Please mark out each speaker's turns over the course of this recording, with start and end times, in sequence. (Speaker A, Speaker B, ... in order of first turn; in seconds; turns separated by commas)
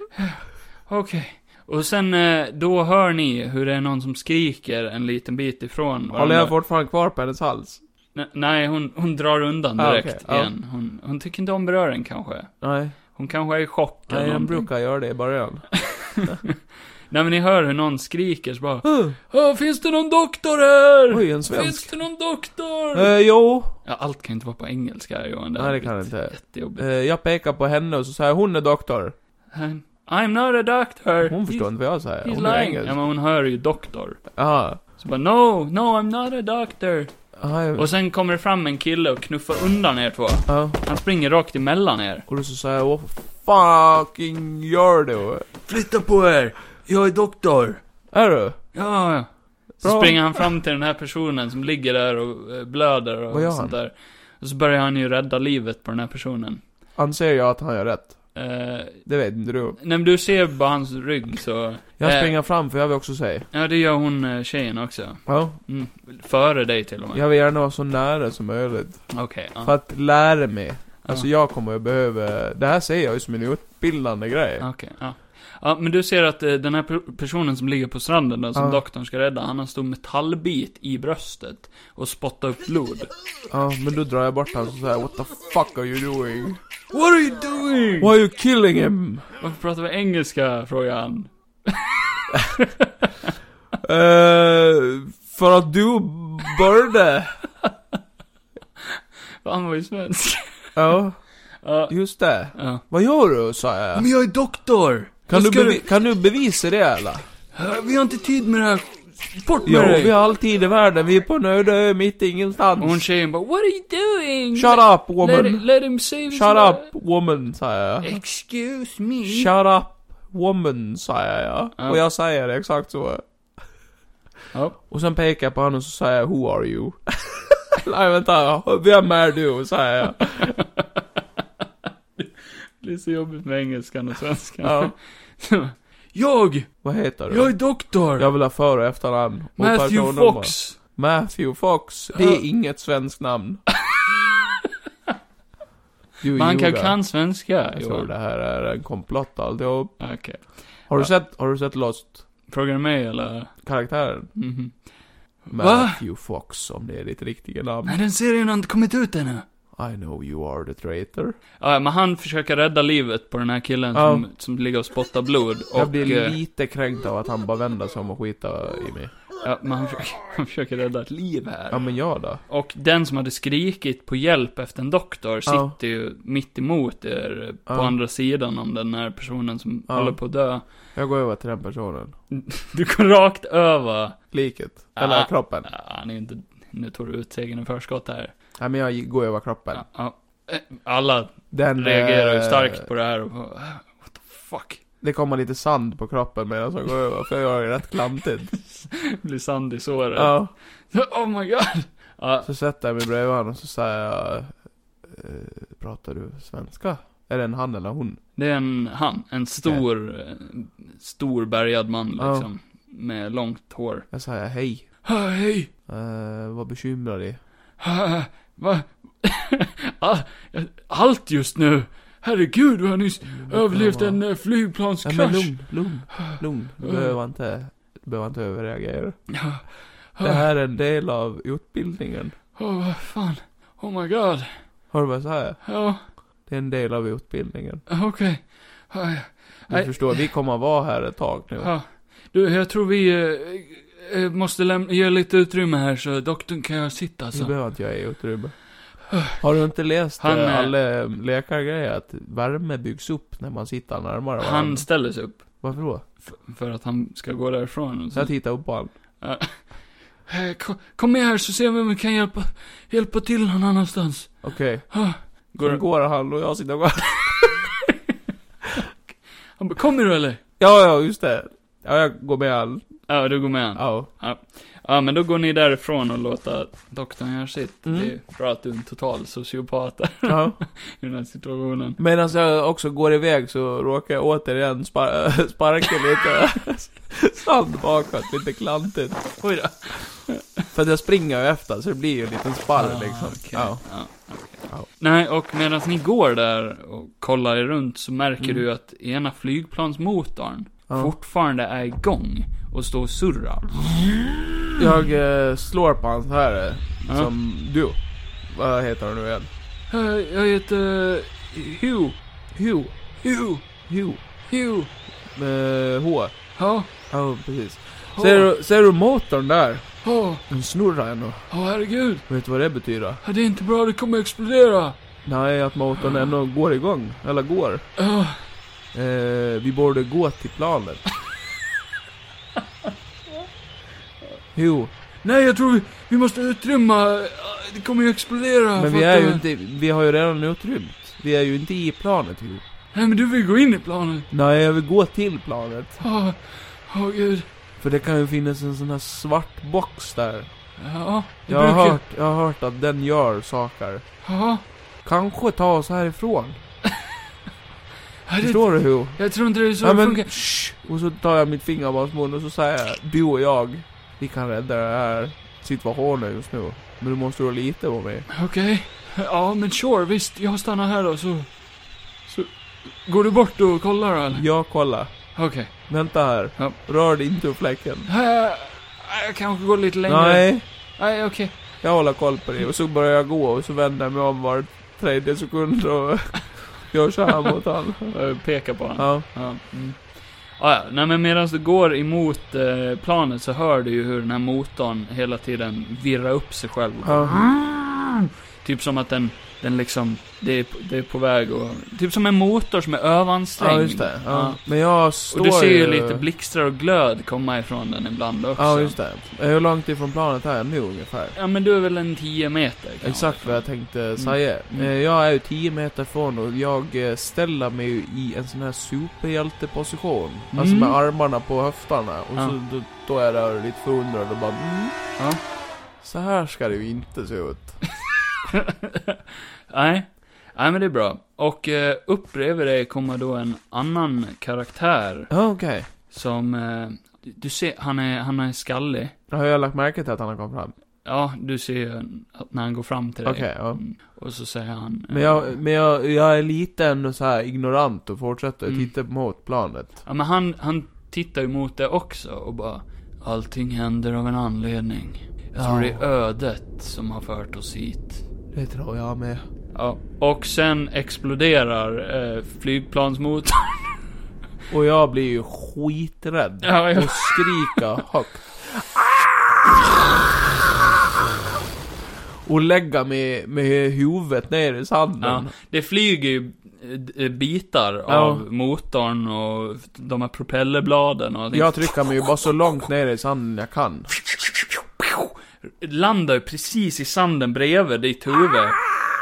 Speaker A: 0.2-6.5, Speaker B: 6.1-7.8, Speaker A: 8.2-12.5, Speaker B: 9.8-10.5, Speaker B: 12.6-13.0, Speaker A: 13.1-14.7, Speaker B: 14.1-16.4, Speaker A: 15.8-16.6, Speaker A: 17.1-23.1, Speaker B: 18.8-19.2, Speaker B: 21.1-21.9, Speaker B: 22.9-23.8, Speaker A: 23.8-26.8, Speaker B: 25.6-29.1, Speaker A: 29.5-31.7, Speaker B: 31.2-33.0, Speaker A: 32.2-34.3, Speaker B: 34.4-34.8, Speaker A: 35.0-37.1, Speaker B: 37.4-37.9, Speaker A: 37.8-42.3, Speaker B: 40.5-40.8, Speaker B: 42.3-45.5, Speaker A: 45.7-47.8, Speaker B: 48.1-48.6, Speaker A: 48.7-49.3, Speaker A: 49.8-56.6, Speaker B: 49.8-50.5, Speaker B: 53.3-53.8, Speaker B: 57.0-58.2, Speaker A: 58.4-59.1, Speaker B: 59.1-59.8, Speaker A: 59.8-62.4, Speaker B: 62.0-63.5, Speaker A: 63.5-67.2, Speaker B: 65.3-65.6, Speaker B: 67.1-74.7, Speaker A: 69.1-69.7, Speaker A: 74.6-83.1, Speaker B: 78.5-78.8, Speaker B: 83.5-86.6, Speaker A: 86.9-88.1, Speaker B: 88.0-89.3, Speaker A: 89.4-93.3, Speaker B: 93.8-97.4, Speaker A: 98.8-100.7, Speaker B: 100.8-101.2, Speaker A: 101.6-102.0, Speaker B: 101.9-104.1, Speaker A: 102.5-102.8, Speaker A: 104.0-105.8, Speaker B: 105.3-107.3, Speaker A: 107.5-110.1, Speaker B: 109.7-113.0, Speaker A: 112.8-116.9, Speaker B: 114.5-115.7, Speaker B: 116.3-118.2, Speaker A: 118.0-119.5, Speaker B: 119.2-123.2, Speaker B: 124.9-130.6, Speaker A: 130.4-131.0, Speaker A: 132.2-136.7, Speaker B: 134.6-134.9, Speaker B: 136.8-137.6, Speaker A: 137.3-138.3, Speaker B: 138.2-143.7, Speaker A: 139.6-140.8, Speaker A: 142.2-142.4, Speaker A: 143.9-144.7, Speaker B: 146.2-147.0, Speaker A: 146.3-148.1, Speaker B: 147.7-150.1, Speaker A: 150.0-151.1, Speaker B: 150.9-152.3, Speaker A: 152.5-153.6, Speaker B: 153.6-154.3, Speaker A: 154.3-154.8, Speaker A: 155.4-156.0, Speaker B: 155.5-158.0, Speaker A: 157.9-159.4, Speaker B: 159.8-161.3, Speaker A: 161.6-166.4, Speaker B: 163.9-164.3, Speaker B: 165.8-169.1, Speaker A: 169.4-171.8, Speaker B: 171.7-172.4, Speaker A: 172.5-180.6, Speaker B: 175.5-175.8, Speaker B: 177.7-177.9, Speaker B: 179.9-180.2, Speaker B: 180.9-182.2, Speaker A: 182.3-184.2, Speaker B: 184.3-185.7, Speaker A: 185.0-188.3, Speaker B: 188.6-189.9, Speaker A: 189.7-194.8, Speaker B: 191.5-192.9, Speaker B: 195.0-198.6, Speaker A: 198.6-200.4, Speaker B: 200.2-200.5, Speaker A: 200.9-202.5, Speaker B: 202.4-204.5, Speaker B: 205.0-208.2, Speaker A: 208.4-214.1, Speaker B: 212.2-212.5, Speaker B: 214.1-214.9, Speaker A: 215.0-215.7, Speaker B: 215.9-217.4, Speaker A: 217.8-225.6, Speaker B: 223.3-224.2, Speaker B: 225.0-229.3, Speaker A: 226.1-227.1, Speaker A: 229.3-230.4, Speaker B: 230.2-232.4, Speaker A: 232.6-234.7, Speaker B: 234.9-235.8, Speaker A: 235.6-236.0, Speaker B: 236.4-237.8, Speaker A: 237.9-240.3, Speaker B: 239.7-241.7, Speaker A: 241.6-247.5, Speaker B: 247.3-248.6, Speaker A: 249.1-249.4, Speaker B: 249.2-254.9, Speaker A: 250.2-250.7, Speaker A: 254.4-255.5, Speaker B: 255.6-256.0, Speaker A: 256.2-258.3, Speaker B: 258.1-258.9, Speaker A: 259.2-265.8, Speaker B: 264.4-265.0, Speaker B: 265.6-267.7, Speaker A: 267.4-267.9, Speaker A: 269.6-270.4, Speaker B: 270.6-272.9, Speaker A: 273.1-282.0, Speaker B: 273.8-274.1, Speaker B: 277.9-278.1, Speaker B: 280.3-280.6, Speaker B: 282.0-289.4, Speaker A: 289.4-290.7, Speaker B: 290.7-293.9, Speaker A: 292.8-304.7, Speaker B: 300.9-301.1, Speaker B: 304.8-309.5, Speaker A: 307.1-307.3, Speaker A: 309.9-312.2, Speaker B: 312.5-313.0, Speaker A: 313.2-313.7, Speaker B: 313.9-314.2, Speaker A: 314.5-314.9, Speaker B: 315.3-316.3, Speaker A: 316.6-316.9, Speaker B: 317.1-321.5, Speaker A: 318.1-318.5, Speaker A: 320.0-320.4, Speaker A: 321.5-322.3, Speaker B: 322.3-323.2, Speaker A: 323.2-325.0, Speaker B: 325.2-327.9, Speaker A: 328.0-328.5, Speaker B: 328.9-331.0, Speaker B: 334.6-334.9, Speaker A: 335.2-339.4, Speaker B: 338.8-342.6, Speaker A: 342.9-344.3, Speaker B: 344.3-346.0, Speaker A: 346.0-347.5, Speaker B: 347.8-350.5, Speaker A: 350.8-352.0, Speaker B: 351.5-354.1, Speaker A: 354.2-354.6, Speaker B: 355.0-356.6, Speaker A: 358.3-360.6, Speaker B: 358.4-359.3, Speaker B: 359.8-368.3, Speaker A: 368.3-371.5, Speaker A: 372.3-374.5, Speaker B: 374.4-378.1, Speaker A: 375.4-375.9, Speaker A: 378.1-381.6, Speaker B: 380.1-380.6, Speaker B: 381.8-388.1, Speaker A: 388.1-404.6, Speaker B: 389.0-389.3, Speaker B: 397.0-397.6, Speaker B: 403.6-406.2, Speaker A: 405.3-409.0, Speaker B: 408.6-411.4, Speaker A: 411.4-414.9, Speaker B: 413.0-425.0, Speaker A: 420.5-421.0, Speaker B: 426.0-427.8, Speaker A: 428.4-435.3, Speaker B: 435.3-435.9, Speaker A: 436.1-439.1, Speaker B: 439.3-440.7, Speaker A: 441.0-445.6, Speaker B: 443.2-443.8, Speaker B: 445.1-450.0, Speaker A: 448.7-448.9, Speaker A: 450.1-458.2, Speaker B: 455.6-456.0, Speaker B: 458.5-459.4, Speaker A: 459.7-464.0, Speaker B: 464.7-470.6, Speaker A: 466.6-467.8, Speaker B: 472.4-475.5, Speaker A: 475.2-482.0, Speaker B: 478.1-478.4, Speaker B: 481.5-484.1, Speaker A: 484.4-488.8